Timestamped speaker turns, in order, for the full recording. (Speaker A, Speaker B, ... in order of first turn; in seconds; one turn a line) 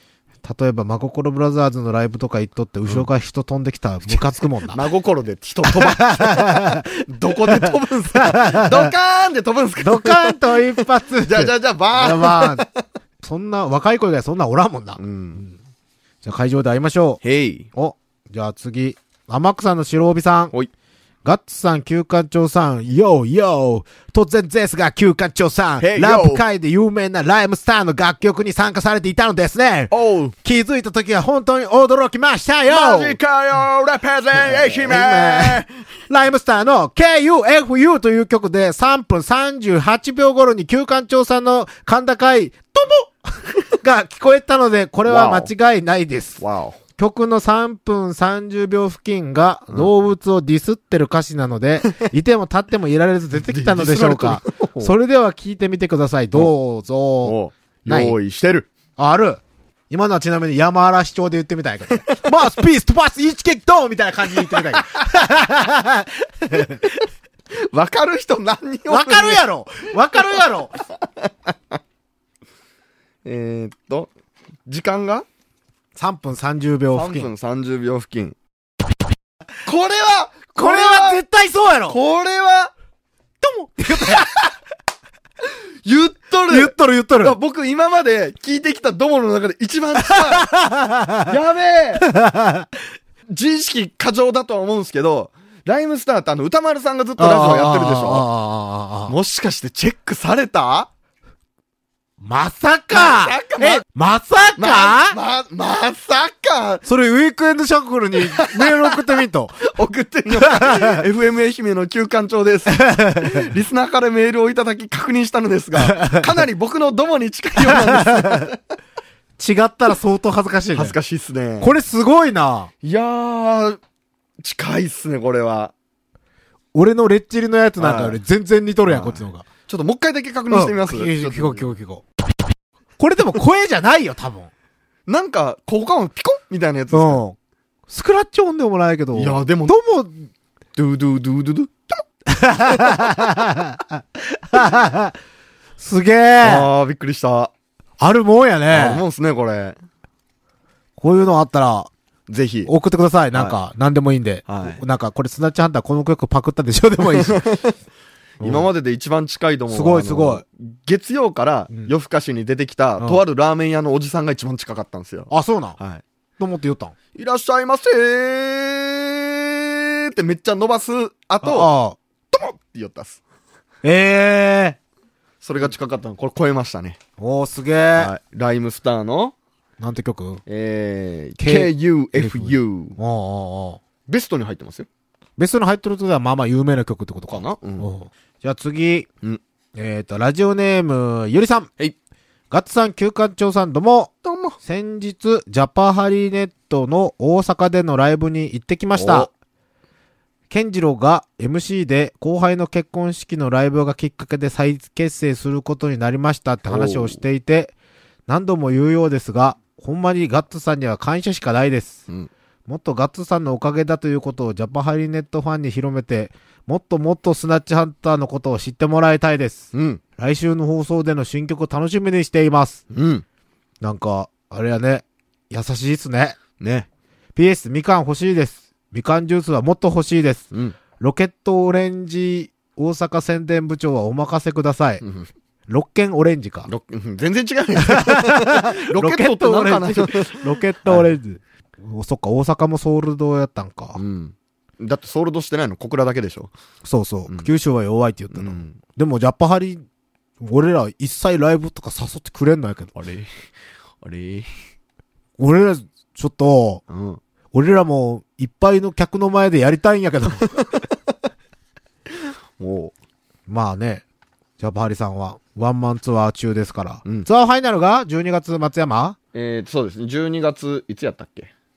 Speaker A: 0.4-4.8
Speaker B: 4.1-12.8
Speaker A: 5.6-8.9
Speaker A: 9.8-12.7
Speaker A: 13.2-15.5
Speaker B: 15.0-15.4
Speaker A: 16.2-17.2
Speaker B: 17.2-17.7
Speaker A: 17.7-20.5
Speaker A: 21.2-33.2
Speaker B: 25.8-26.4
Speaker B: 29.9-30.3
Speaker B: 32.7-35.7
Speaker A: 34.3-46.4
Speaker B: 45.0-45.5
Speaker B: 46.4-46.8
Speaker A: 47.0-57.4
Speaker B: 53.5-54.9
Speaker B: 57.2-58.7
Speaker A: 57.9-58.2
Speaker A: 59.0-66.9
Speaker B: 62.0-62.3
Speaker B: 64.4-64.9
Speaker B: 67.5-69.4
Speaker A: 68.9-70.8
Speaker B: 70.9-71.8
Speaker B: 73.2-74.1
Speaker B: 74.7-75.2
Speaker A: 75.9-77.3
Speaker B: 76.9-78.3
Speaker B: 79.6-81.2
Speaker A: 80.5-82.0
Speaker B: 81.9-82.7
Speaker A: 83.4-84.3
Speaker B: 84.0-84.4
Speaker B: 85.8-90.5
Speaker A: 86.5-87.4
Speaker A: 90.0-91.3
Speaker B: 91.2-92.1
Speaker A: 92.0-92.7
Speaker B: 93.3-98.3
Speaker A: 97.2-99.2
Speaker B: 99.1-100.9
Speaker A: 102.2-105.2
Speaker B: 102.9-103.8
Speaker B: 104.5-106.8
Speaker A: 106.8-109.6
Speaker B: 108.2-118.6
Speaker A: 110.3-111.0
Speaker A: 112.7-113.5
Speaker A: 115.8-116.4
Speaker A: 117.6-118.5
Speaker A: 119.4-121.0
Speaker B: 120.7-121.7
Speaker A: 121.6-122.7
Speaker B: 122.8-123.8
Speaker B: 124.4-125.7
Speaker A: 126.7-129.4
Speaker B: 127.8-128.2
Speaker B: 128.9-131.7
Speaker A: 130.5-132.0
Speaker A: 133.0-134.5
Speaker B: 135.1-137.2
Speaker A: 136.9-137.3
Speaker A: 137.9-140.3
Speaker B: 139.1-139.8
Speaker B: 140.8-142.0
Speaker A: 142.3-145.2
Speaker A: 145.8-146.7
Speaker B: 146.4-147.5
Speaker A: 148.0-149.0
Speaker B: 148.7-149.8
Speaker A: 151.0-151.9
Speaker B: 152.3-152.7
Speaker A: 152.7-157.4
Speaker B: 154.5-154.8
Speaker B: 157.1-157.7
Speaker A: 158.4-158.7
Speaker B: 158.4-166.0
Speaker A: 159.7-160.4
Speaker A: 165.3-165.8
Speaker A: 166.4-166.9
Speaker B: 167.1-171.7
Speaker A: 171.4-172.0
Speaker B: 172.3-173.2
Speaker A: 173.8-174.8
Speaker B: 175.4-177.0
Speaker A: 177.2-178.1
Speaker B: 177.9-179.3
Speaker A: 179.8-180.4
Speaker B: 180.5-183.0
Speaker A: 181.4-183.8
Speaker B: 184.1-184.9
Speaker A: 185.4-189.1
Speaker B: 187.3-187.9
Speaker A: 189.7-191.7
Speaker A: 192.5-194.1
Speaker B: 194.2-194.6
Speaker A: 194.6-199.3
Speaker B: 198.9-199.3
Speaker A: 200.5-207.7
Speaker B: 206.6-207.2
Speaker A: 208.3-212.0
Speaker A: 212.7-222.8
Speaker B: 219.7-220.0
Speaker B: 222.9-223.2
Speaker A: 223.8-226.4
Speaker B: 226.6-226.9
Speaker A: 227.3-235.0
Speaker B: 230.5-230.8
Speaker B: 235.0-235.3
Speaker A: 235.7-236.7
Speaker B: 236.7-241.1
Speaker A: 237.8-244.0
Speaker B: 243.9-246.5
Speaker A: 246.8-249.8
Speaker B: 248.3-248.8
Speaker A: 250.4-252.9
Speaker B: 252.9-253.4
Speaker B: 254.0-254.5
Speaker A: 255.4-256.8
Speaker B: 256.9-257.2
Speaker A: 257.5-260.6
Speaker B: 262.6-262.9
Speaker A: 263.5-264.0
Speaker A: 264.6-269.2
Speaker B: 269.3-271.5